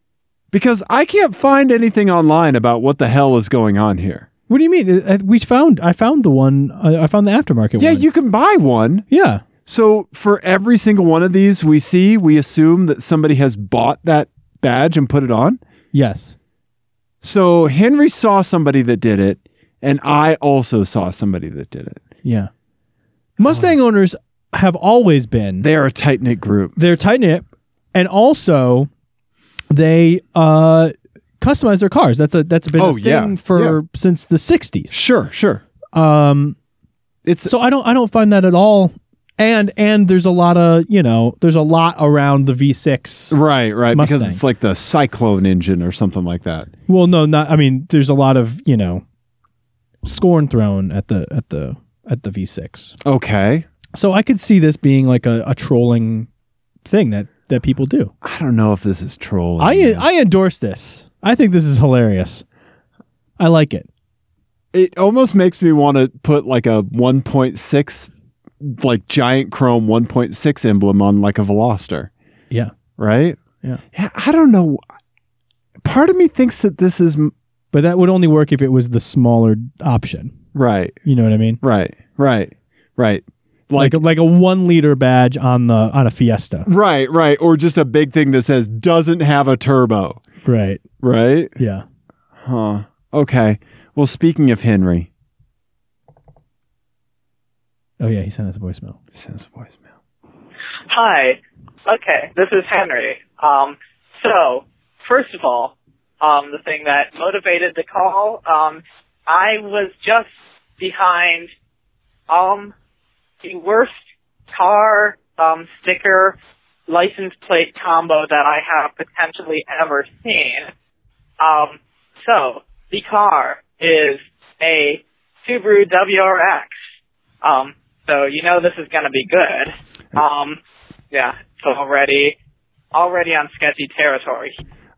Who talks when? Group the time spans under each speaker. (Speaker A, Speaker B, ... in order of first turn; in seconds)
Speaker A: 0.5-4.3, 7.8-9.1, 9.7-15.6, 17.2-22.0, 25.6-26.8, 32.8-33.8, 34.9-35.6, 37.2-37.5, 43.3-46.7, 53.0-53.7, 58.2-60.0, 64.7-72.1, 73.0-73.4, 73.9-74.8, 75.8-77.3, 80.5-81.0, 81.6-84.0, 86.7-90.2, 91.0-91.5, 92.4-95.1, 99.2-99.8
Speaker B: 4.5-8.1, 9.1-9.4, 15.9-16.4, 22.2-22.5, 23.4-25.7, 26.8-28.9, 29.7-35.0, 35.9-36.6, 37.5-43.4, 43.9-44.4, 46.9-49.0, 50.0-53.0, 53.9-56.3, 56.9-58.1, 59.6-62.4, 63.4-63.9, 77.7-80.3, 81.0-81.6, 83.8-86.7, 90.5-90.8, 91.6-91.8, 98.0-99.0
Speaker C: 100.9-110.3, 110.8-111.5, 112.3-112.7, 113.4-113.9, 114.5-116.4, 116.9-120.7, 121.4-126.7, 127.4-130.6, 131.1-132.4, 132.9-134.6